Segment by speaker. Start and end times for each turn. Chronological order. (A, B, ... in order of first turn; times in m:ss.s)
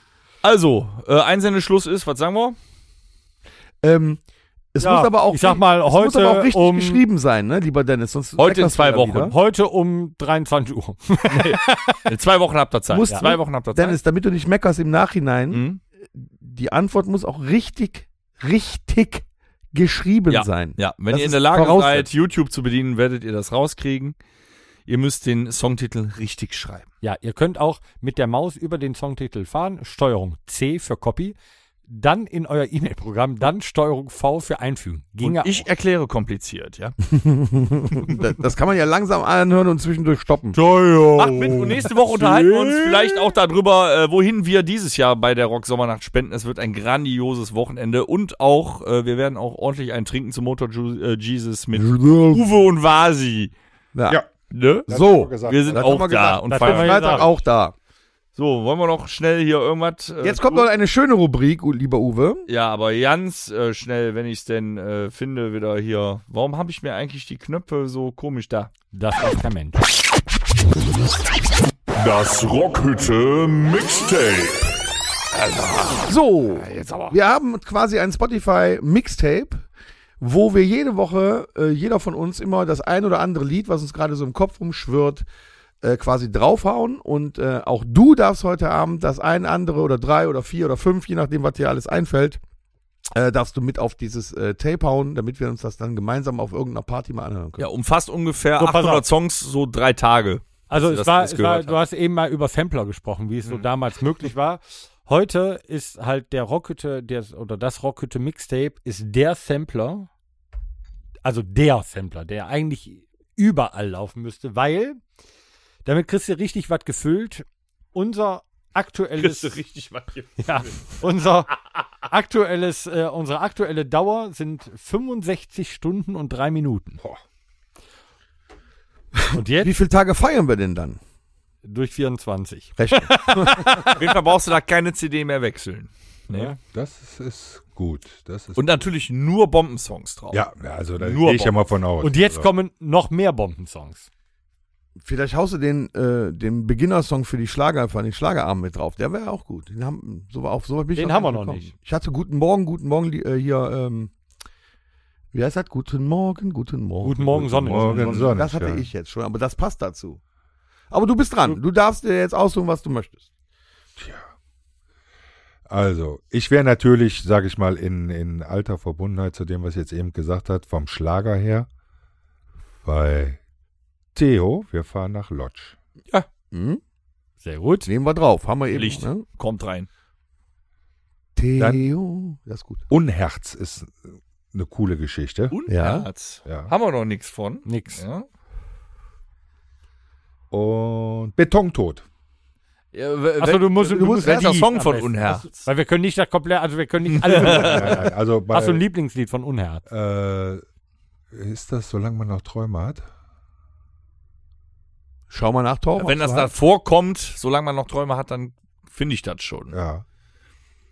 0:00.4-0:02.6 A
0:03.8-0:04.2 B
0:04.7-0:09.4 B
0:04.8-0:07.0 C
0:08.4-0:09.3 A
0:09.3-0:12.0 C
0:11.3-0:14.0 A
0:12.9-0:22.1 B
0:15.5-0:15.8 A
0:20.3-0:24.2 A
0:24.9-0:26.9 A
0:27.0-0:31.4 C
0:31.9-0:35.7 C
0:35.2-0:37.0 A
0:37.1-0:40.6 B
0:40.5-0:43.3 C
0:41.2-0:53.5 A
0:51.8-0:52.4 B
0:54.0-0:54.2 B
0:54.5-0:54.9 A
0:54.9-0:57.7 B
0:54.9-0:56.1 D
0:55.4-0:57.4 A
0:56.5-0:57.3 C
0:58.4-1:00.7 A
1:00.2-1:02.5 B
1:02.5-1:08.7 A
1:08.9-1:09.8 C
1:12.0-1:14.8 E
1:15.8-1:19.7 B
1:16.6-1:17.2 C
1:20.2-1:25.2 B
1:25.8-1:32.4 B
1:33.1-1:37.7 B
1:37.6-1:41.8 A
1:38.6-1:39.0 C
1:40.7-1:50.1 C
1:51.2-1:55.0 C
1:55.9-1:59.6 C
1:59.2-2:01.0 A
2:00.4-2:01.5 C
2:02.0-2:07.0 C
2:09.2-2:11.0 B
2:09.3-2:09.7 C
2:11.6-2:14.0 C
2:12.8-2:13.8 B
2:13.6-2:16.6 A
2:16.4-2:18.6 D
2:18.6-2:20.4 A
2:20.3-2:22.5 D
2:21.0-2:21.6 A
2:22.0-2:24.1 C
2:25.0-2:34.1 B
2:30.9-2:31.7 C
2:35.3-2:40.2 B
2:37.0-2:38.4 C
2:37.4-2:38.9 D
2:40.9-2:43.3 B
2:44.0-2:44.3 D
2:45.7-2:51.7 D
2:52.8-2:53.4 D
2:54.2-2:55.8 D
2:56.5-2:56.8 B
2:57.4-2:57.9 C
2:57.9-2:59.2 B
2:58.7-2:59.9 A
3:01.4-3:02.8 B
3:01.6-3:01.9 D
3:02.9-3:05.6 D
3:05.5-3:08.2 A
3:05.7-3:06.1 B
3:06.5-3:06.7 D
3:07.7-3:08.0 C
3:10.5-3:12.0 D
3:12.9-3:15.7 A
3:13.4-3:19.8 C
3:13.8-3:14.6 B
3:17.2-3:17.9 A
3:17.3-3:18.8 D
3:19.9-3:20.6 D
3:21.3-3:23.0 D
3:25.3-3:26.5 B
3:26.0-3:29.7 A
3:29.7-3:30.0 D